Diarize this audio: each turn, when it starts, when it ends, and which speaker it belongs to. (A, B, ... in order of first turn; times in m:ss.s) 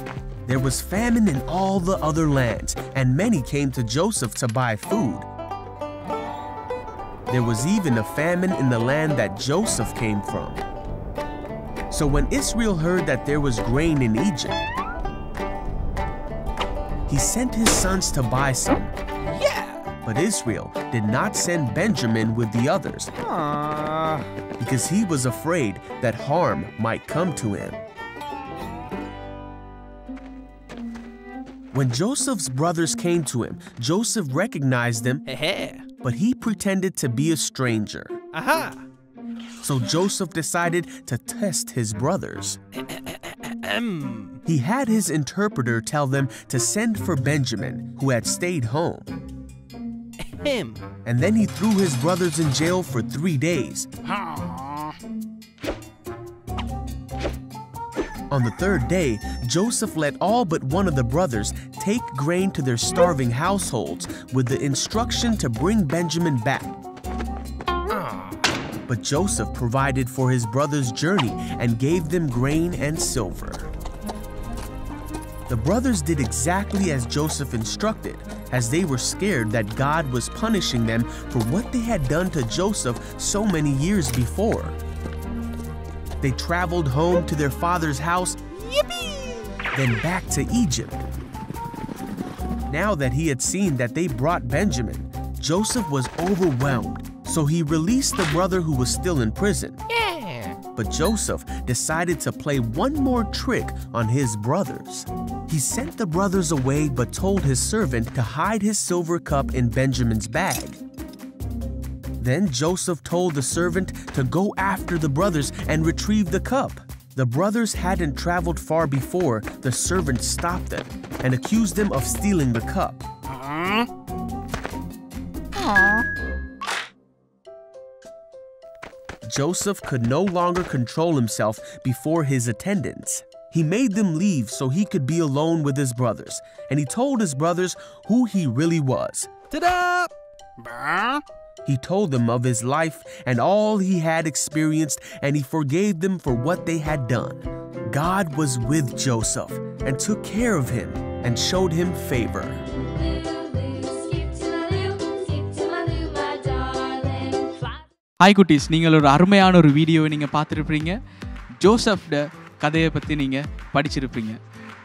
0:00.5-0:05.3 A
0:07.3-0:10.6 A
0:11.9-0:14.6 A
0:17.1-0:18.9 A
0:19.2-0:19.9 B
0:20.0-0:23.1 A
0:23.2-0:24.3 B
0:24.6-0:27.8 A
0:31.7-0:35.2 A
0:35.3-0:35.9 B
0:36.0-0:38.2 A
0:38.3-0:38.8 B
0:39.6-0:42.6 A
0:42.8-0:44.4 B
0:44.5-0:49.1 A
0:50.3-0:50.8 B
0:51.0-0:53.9 A
0:54.1-0:54.9 B
0:58.3-1:06.7 A
1:08.9-1:13.7 A
1:15.5-1:24.8 A
1:26.2-1:28.4 A
1:29.7-1:31.0 A
1:32.7-1:39.8 A
1:39.9-1:40.6 B
1:40.7-1:50.8 A
1:52.2-2:03.1 A
2:03.3-2:03.9 B
2:09.2-2:19.3 A
2:19.5-2:21.2 B
2:21.6-2:32.6 A
2:38.2-2:41.0 C
2:41.6-2:44.4 C